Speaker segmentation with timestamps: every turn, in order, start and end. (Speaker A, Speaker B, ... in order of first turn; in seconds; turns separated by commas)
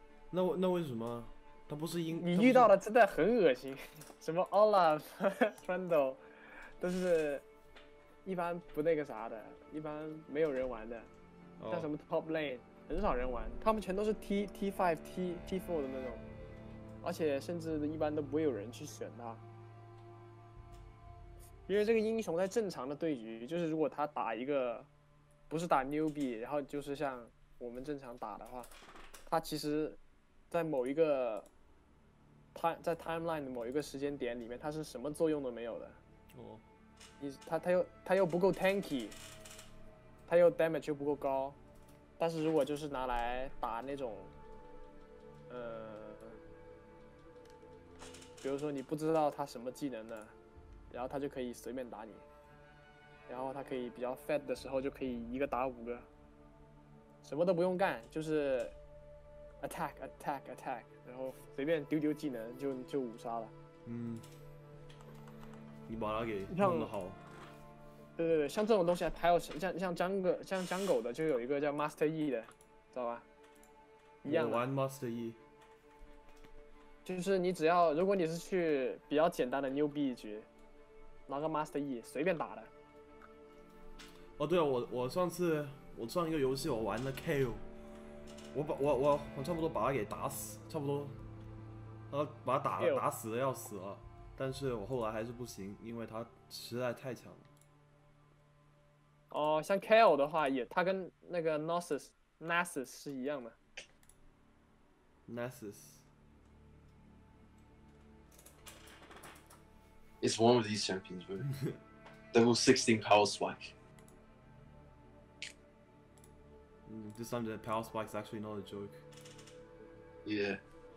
Speaker A: 0.3-2.7, Speaker B: 2.2-6.2, Speaker B: 6.8-7.4, Speaker B: 8.3-11.1, Speaker A: 11.6-11.9, Speaker B: 11.7-16.2, Speaker B: 17.0-19.4, Speaker B: 21.7-24.9, Speaker B: 25.5-28.7, Speaker B: 29.3-30.0, Speaker B: 30.5-31.5, Speaker B: 32.5-36.0, Speaker A: 36.3-36.6, Speaker B: 37.2-39.2, Speaker B: 40.3-41.6, Speaker B: 42.2-44.3, Speaker B: 45.5-46.4, Speaker B: 48.4-50.3, Speaker B: 50.9-52.2, Speaker B: 53.3-56.1, Speaker B: 57.2-58.8, Speaker B: 59.6-63.5, Speaker A: 63.9-64.2, Speaker A: 65.9-67.2, Speaker B: 66.5-66.9, Speaker B: 68.2-73.2, Speaker B: 74.2-74.6, Speaker A: 74.2-75.4, Speaker B: 77.0-80.5, Speaker B: 81.3-82.7, Speaker A: 84.4-87.6, Speaker A: 88.5-91.2, Speaker A: 92.1-97.5, Speaker B: 99.3-103.6, Speaker A: 105.3-106.0, Speaker C: 110.2-111.5, Speaker A: 111.5-111.8, Speaker C: 112.3-113.7, Speaker A: 116.9-119.0, Speaker C: 120.2-120.6